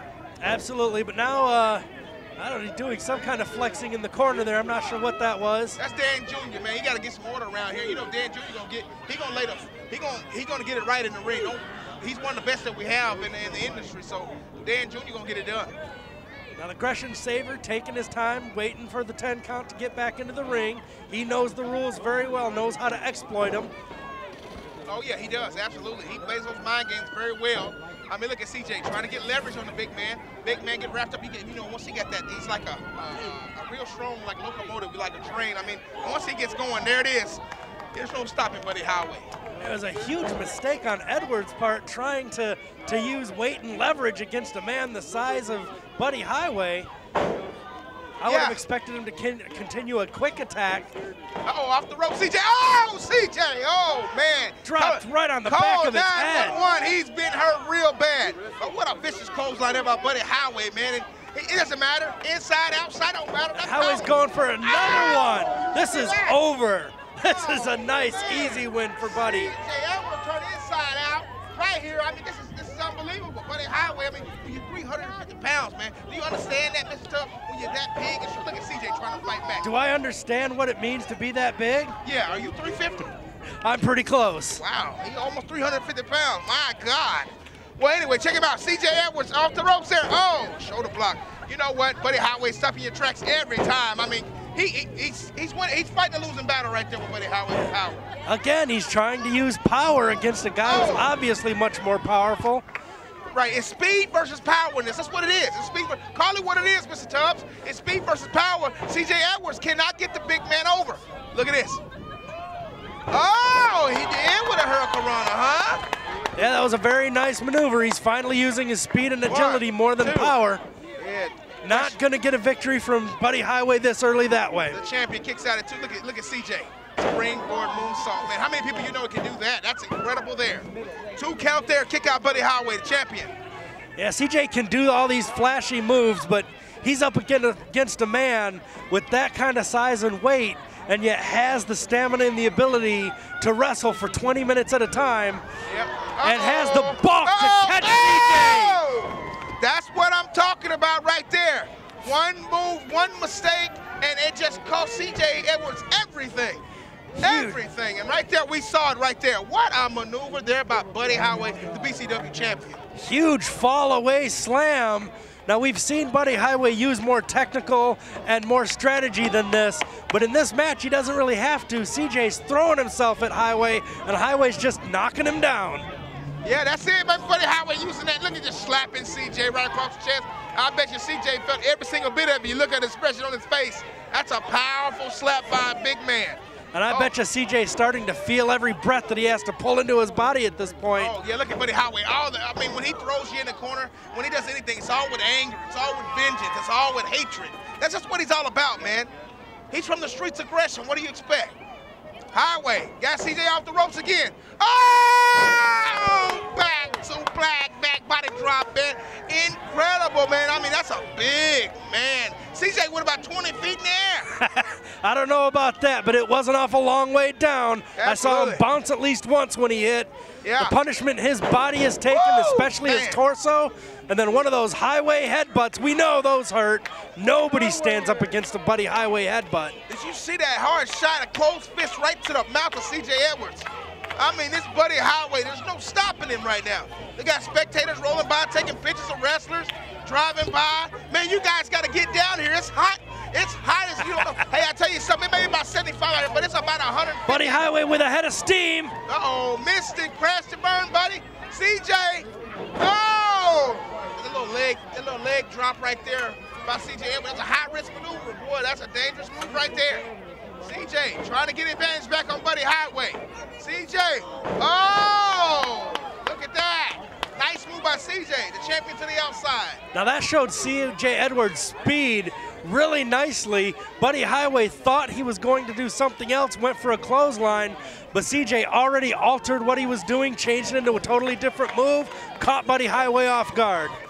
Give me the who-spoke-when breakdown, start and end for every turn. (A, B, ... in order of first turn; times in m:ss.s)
0:00.4-0:01.8 A
0:02.4-0:05.8 A
0:05.8-0:15.7 B
0:16.5-0:23.7 A
0:24.8-0:37.4 B
0:37.9-0:39.3 B
0:39.6-0:46.9 A
0:48.2-0:50.9 A
0:48.2-0:48.6 B
0:51.4-1:06.4 B
0:54.6-0:56.6 A
1:03.5-1:09.5 A
1:07.2-1:19.7 B
1:19.6-1:22.0 A
1:22.0-1:23.2 B
1:23.6-1:24.6 A
1:24.5-1:38.0 B
1:38.2-1:42.6 A
1:40.6-1:41.1 B
1:43.3-1:51.8 B
1:53.1-1:55.8 B
1:56.4-2:00.6 A
1:59.2-2:00.4 B
2:01.0-2:02.0 B
2:01.6-2:04.8 A
2:04.7-2:13.3 B
2:14.0-2:25.4 A
2:25.6-2:36.6 B
2:26.2-2:28.8 A
2:37.2-2:37.6 A
2:37.2-2:42.8 B
2:42.9-2:55.9 A
2:56.4-3:07.1 B
3:06.7-3:11.1 A
3:10.9-3:19.1 B
3:19.7-3:21.6 B
3:22.3-3:34.4 B
3:34.4-3:49.8 A
3:37.9-3:38.6 B
3:40.4-3:40.7 B
3:42.1-3:43.2 B
3:49.9-4:07.7 B
4:07.3-4:08.9 A
4:09.0-4:20.1 B
4:20.6-4:29.8 B
4:29.9-4:44.0 A